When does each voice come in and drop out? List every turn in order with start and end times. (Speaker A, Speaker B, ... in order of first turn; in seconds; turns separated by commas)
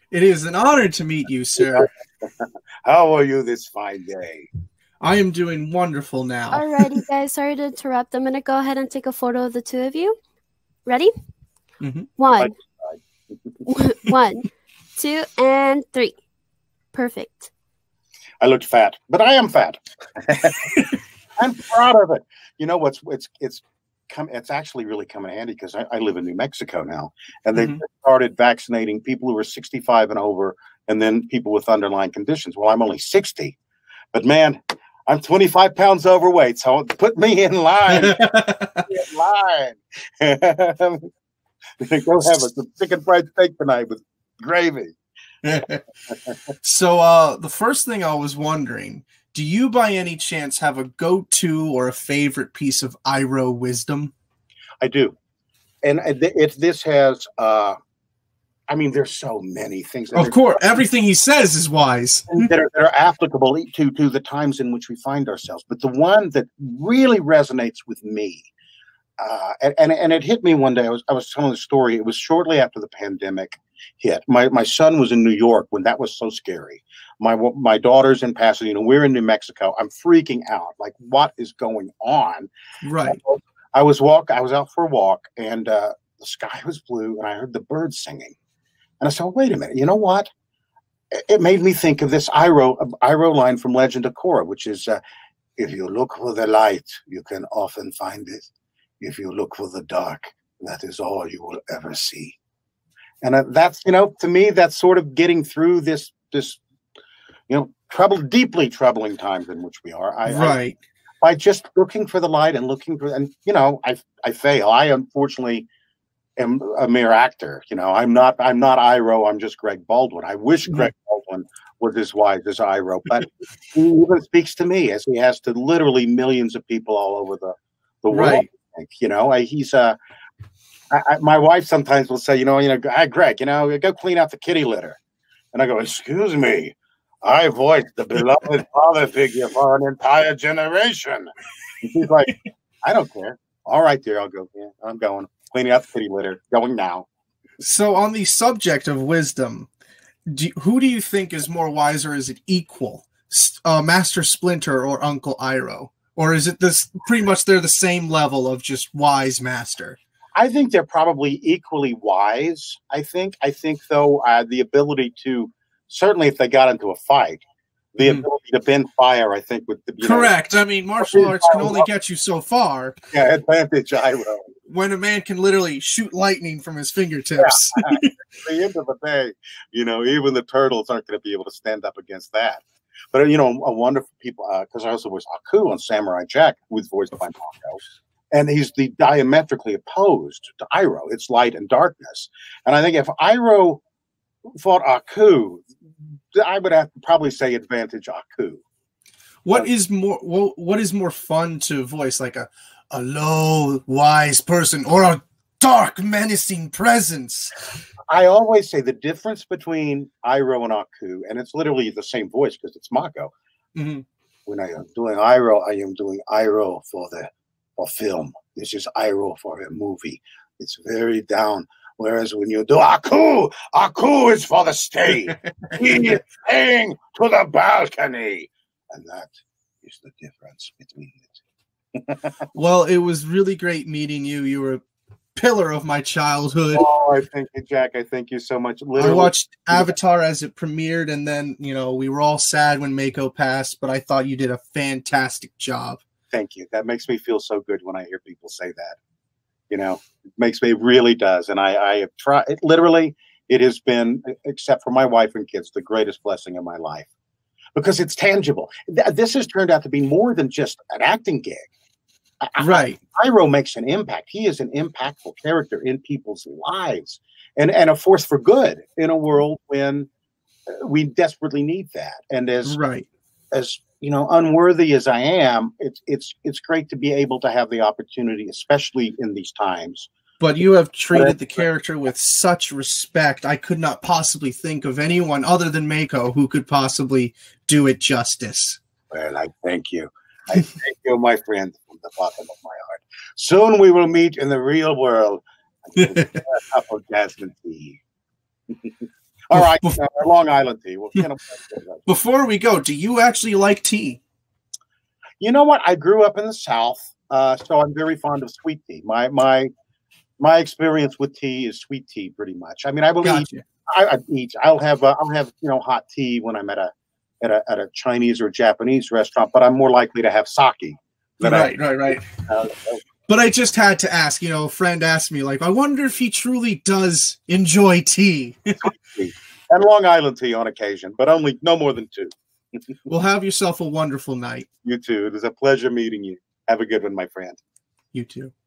Speaker A: 0.1-1.9, Speaker B: 1.6-4.5, Speaker A: 5.0-6.9, Speaker C: 6.5-10.2, Speaker C: 10.8-11.1, Speaker A: 11.8-12.1, Speaker C: 12.2-12.5, Speaker B: 12.4-13.0, Speaker C: 13.7-16.1, Speaker C: 16.9-17.5, Speaker B: 18.4-20.6, Speaker B: 21.4-33.5, Speaker A: 27.5-27.8, Speaker B: 34.1-38.2, Speaker A: 37.9-38.9, Speaker B: 38.9-41.1, Speaker B: 41.8-44.9, Speaker A: 45.4-45.8, Speaker A: 46.6-54.1, Speaker B: 54.8-55.1, Speaker B: 55.8-57.8, Speaker B: 58.7-60.6, Speaker A: 60.1-62.5, Speaker B: 62.3-68.5, Speaker B: 69.2-82.5, Speaker A: 82.8-83.2, Speaker B: 83.0-88.3, Speaker B: 89.0-90.3, Speaker B: 91.1-95.0, Speaker B: 95.6-98.5, Speaker B: 99.0-102.4, Speaker B: 103.2-106.6, Speaker B: 107.5-110.6, Speaker A: 110.3-110.8, Speaker B: 111.2-115.7, Speaker B: 116.4-130.0, Speaker A: 128.1-128.4, Speaker B: 130.9-135.0, Speaker B: 135.5-141.3, Speaker B: 141.8-147.1, Speaker A: 147.6-149.7, Speaker A: 150.3-160.0, Speaker B: 160.3-167.4, Speaker B: 167.9-170.3, Speaker A: 168.0-168.2, Speaker A: 170.0-172.9, Speaker B: 171.0-171.9, Speaker B: 173.1-174.5, Speaker A: 174.7-178.1, Speaker B: 177.4-187.8, Speaker B: 188.3-193.8, Speaker B: 194.6-195.7, Speaker B: 196.3-198.6, Speaker A: 199.4-207.5, Speaker B: 208.1-213.3, Speaker A: 213.7-214.0, Speaker B: 214.5-231.4, Speaker A: 225.3-226.2, Speaker B: 232.0-232.4, Speaker A: 232.5-234.8, Speaker A: 235.3-236.8, Speaker B: 236.7-239.9, Speaker A: 239.0-246.0, Speaker B: 246.3-249.0, Speaker B: 249.7-257.1, Speaker B: 257.7-261.7, Speaker B: 262.4-270.1, Speaker A: 262.6-263.0, Speaker B: 270.7-272.8, Speaker A: 272.6-273.1, Speaker B: 273.5-280.1, Speaker A: 280.4-288.8, Speaker B: 281.1-281.6, Speaker B: 289.1-298.0, Speaker A: 296.0-296.2, Speaker B: 298.8-302.1, Speaker A: 299.5-300.0, Speaker A: 302.1-304.2, Speaker B: 305.4-309.7, Speaker B: 310.4-323.0, Speaker A: 313.2-313.6, Speaker A: 321.4-322.2, Speaker A: 323.3-328.8, Speaker B: 328.8-332.3, Speaker A: 333.1-334.7, Speaker B: 334.8-337.6, Speaker A: 338.1-338.5